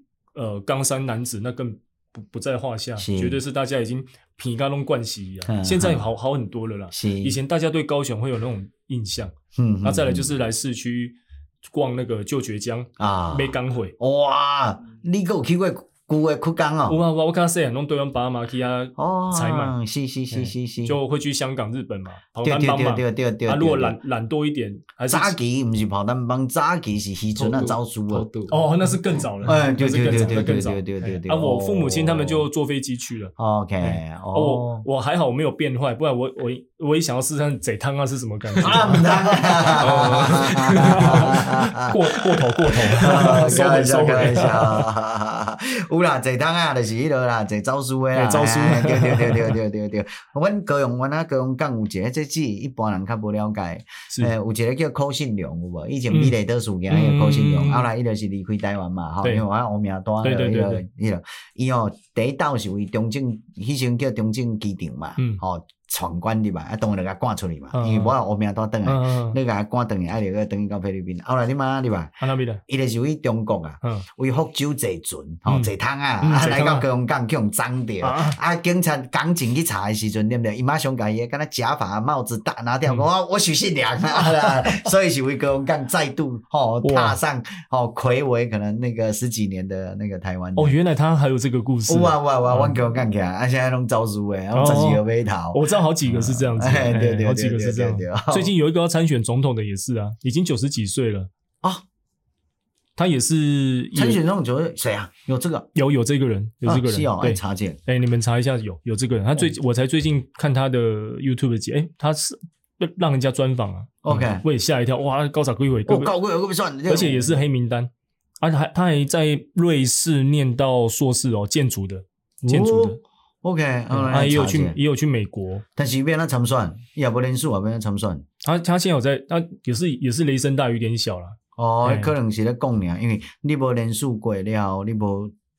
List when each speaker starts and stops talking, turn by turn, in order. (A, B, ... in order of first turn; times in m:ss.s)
0:00.4-0:14.0 A
0:03.0-0:03.4 B
0:05.5-0:06.1 B
0:06.9-0:07.4 B
0:09.6-0:10.3 B
0:13.0-0:17.0 B
0:16.9-0:19.8 A
0:19.0-0:21.0 B
0:20.3-0:25.4 A
0:22.4-0:24.0 B
0:25.1-0:28.3 B
0:27.4-0:28.6 C
0:28.5-0:44.9 A
0:29.4-0:32.4 B
0:33.4-0:34.9 B
0:38.6-1:30.8 B
0:39.7-0:41.6 C
0:48.1-0:49.6 A
0:56.9-0:57.9 A
1:00.2-1:00.8 A
1:07.7-1:08.1 A
1:08.8-1:09.4 A
1:12.2-1:12.6 A
1:15.5-1:16.9 A
1:18.0-1:18.4 A
1:26.8-1:27.2 A
1:30.6-1:32.8 A
1:31.9-1:38.5 B
1:34.5-1:41.3 A
1:43.0-1:44.2 A
1:43.9-1:45.7 B
1:45.8-1:56.1 A
1:46.6-1:47.8 B
1:54.0-1:54.4 B
1:55.9-1:57.4 B
1:56.9-1:57.9 A
1:58.4-2:03.0 A
2:02.4-2:04.8 B
2:03.9-2:05.6 A
2:05.8-2:08.2 B
2:08.4-2:12.1 A
2:11.6-2:15.3 B